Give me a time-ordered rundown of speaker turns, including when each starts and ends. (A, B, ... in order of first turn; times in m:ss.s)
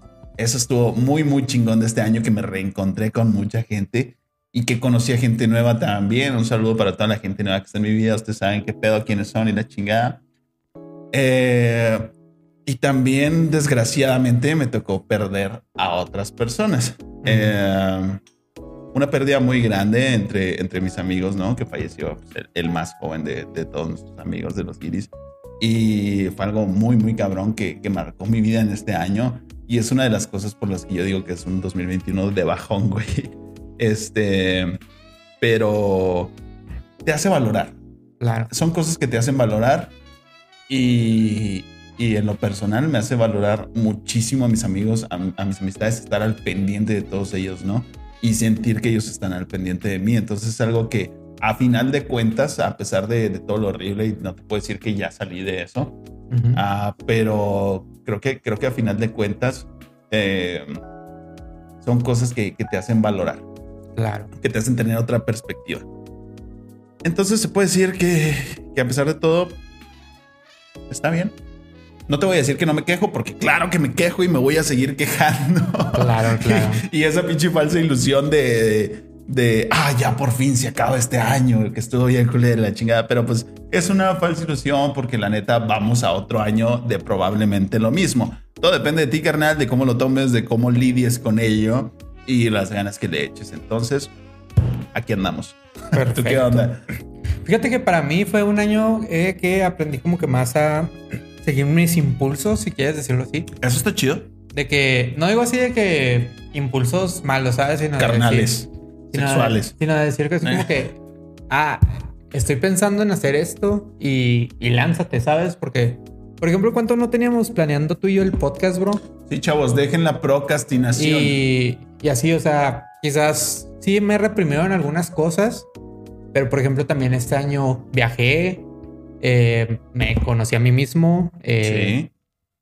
0:00.4-0:10.2 A
0:11.1-0:12.1 A
0:12.6-0:18.2 A
0:17.2-0:17.6 B
0:18.9-0:34.8 A
0:35.4-0:36.3 A
0:37.0-0:37.8 A
0:38.2-0:38.5 B
0:38.5-0:39.9 A
0:40.7-0:56.0 A
0:56.3-0:56.6 B
0:56.5-1:00.8 A
1:01.8-1:03.4 A
1:04.0-1:04.3 B
1:04.4-1:05.9 A
1:07.0-1:09.6 A
1:10.9-1:11.4 A
1:12.1-1:34.1 A
1:15.9-1:16.8 B
1:34.9-1:36.8 A
1:35.9-1:36.7 B
1:37.4-1:43.5 B
1:43.6-1:44.3 A
1:44.5-1:48.5 B
1:48.0-1:49.7 A
1:49.1-1:51.0 B
1:50.4-1:50.8 A
1:51.5-1:59.0 B
1:59.3-2:01.4 A
2:00.9-2:05.7 B
2:06.3-2:08.7 B
2:09.2-2:12.0 B
2:11.6-2:12.1 A